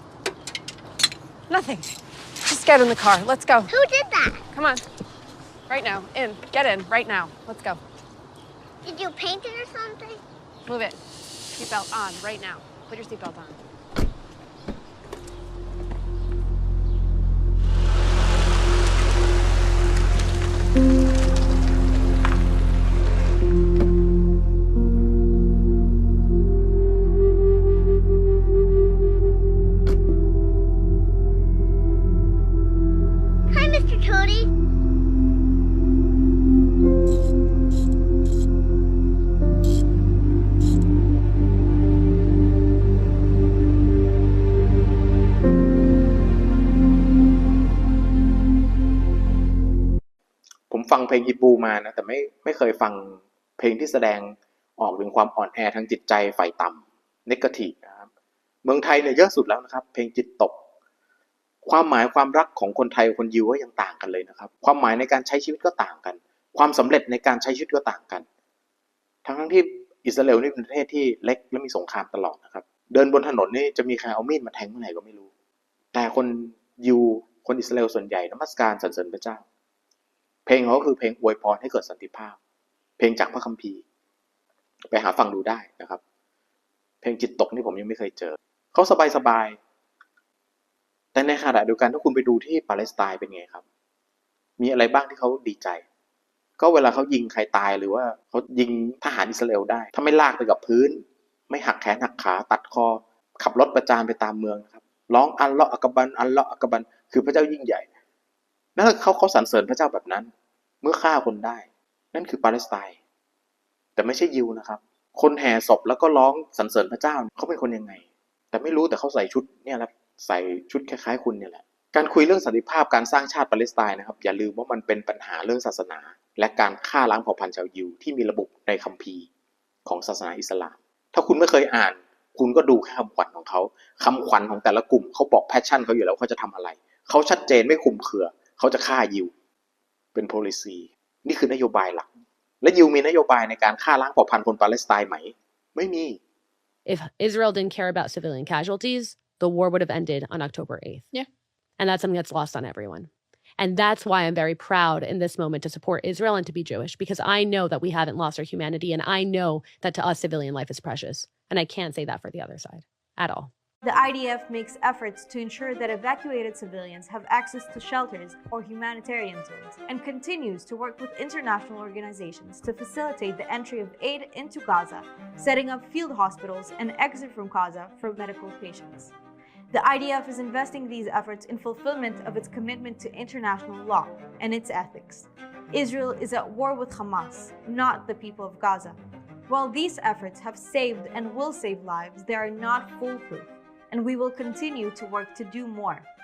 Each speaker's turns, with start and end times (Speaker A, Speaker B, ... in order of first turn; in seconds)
Speaker A: 1.5-1.9, 2.5-3.7, 4.5-4.8, 5.7-7.8, 10.7-11.0, 11.5-13.6
Speaker B: 3.7-4.5, 8.8-10.2, 33.5-34.5
Speaker C: 50.7-58.1, 58.6-60.6, 61.6-68.2, 69.2-75.3, 75.9-79.5, 80.5-82.4, 83.0-83.8, 84.9-86.0, 87.0-89.6, 91.1-93.6, 94.6-95.8, 96.6-107.9, 108.8-110.3, 110.8-113.0, 114.0-129.3, 129.9-139.3, 140.2-142.1, 142.6-146.2
Speaker D: 146.9-151.0, 151.8-163.5
Speaker E: 163.8-179.1, 179.7-196.1